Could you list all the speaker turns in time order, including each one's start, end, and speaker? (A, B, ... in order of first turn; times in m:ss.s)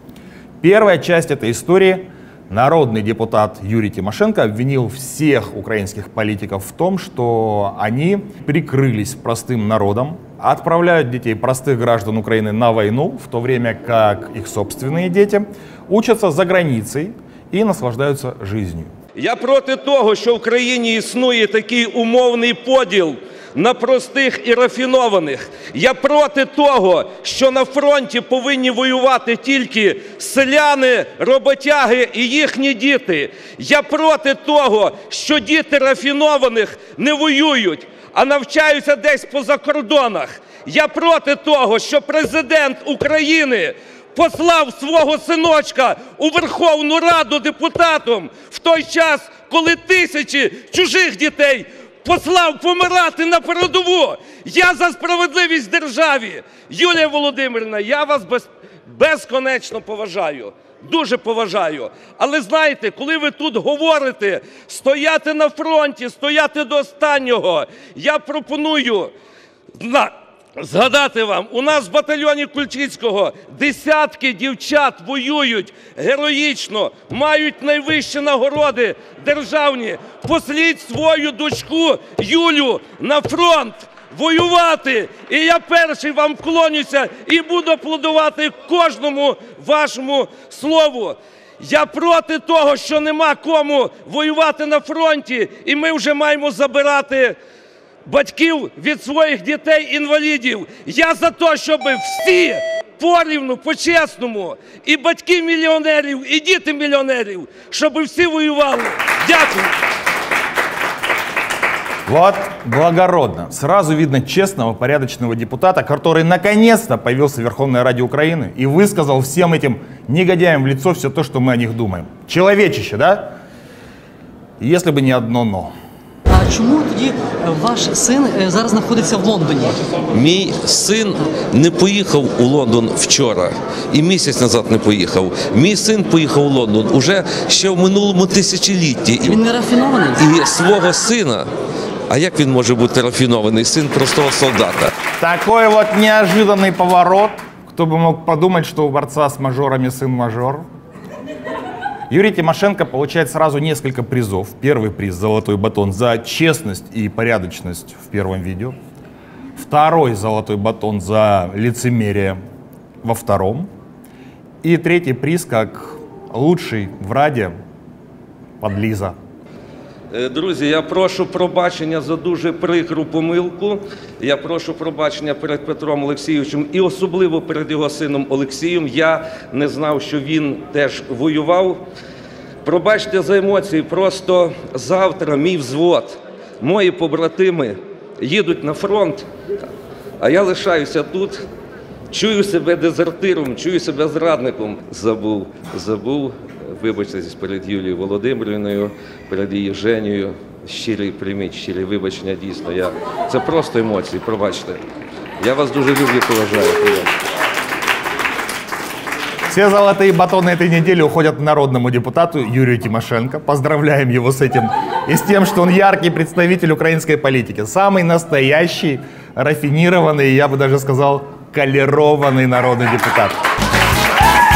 0:00.6-0:18.9 A
0:19.2-1:09.1 B
1:09.8-1:37.4 B
1:38.0-1:49.8 B
1:52.1-2:03.4 A
2:04.6-2:05.7 A
2:06.3-2:10.0 C
2:10.1-2:19.4 B
2:19.3-2:20.2 C
2:20.1-2:21.5 B
2:22.1-2:24.9 B
2:25.2-2:30.7 A
2:32.1-2:38.8 A
2:39.6-2:42.4 A
2:43.0-2:43.7 A
2:44.6-2:47.6 A
2:48.6-2:49.2 A
2:50.1-3:01.8 B
3:02.6-3:09.3 B
3:10.2-3:11.4 B
3:12.1-3:24.8 B
3:25.4-3:27.1 B
3:29.5-3:43.4 A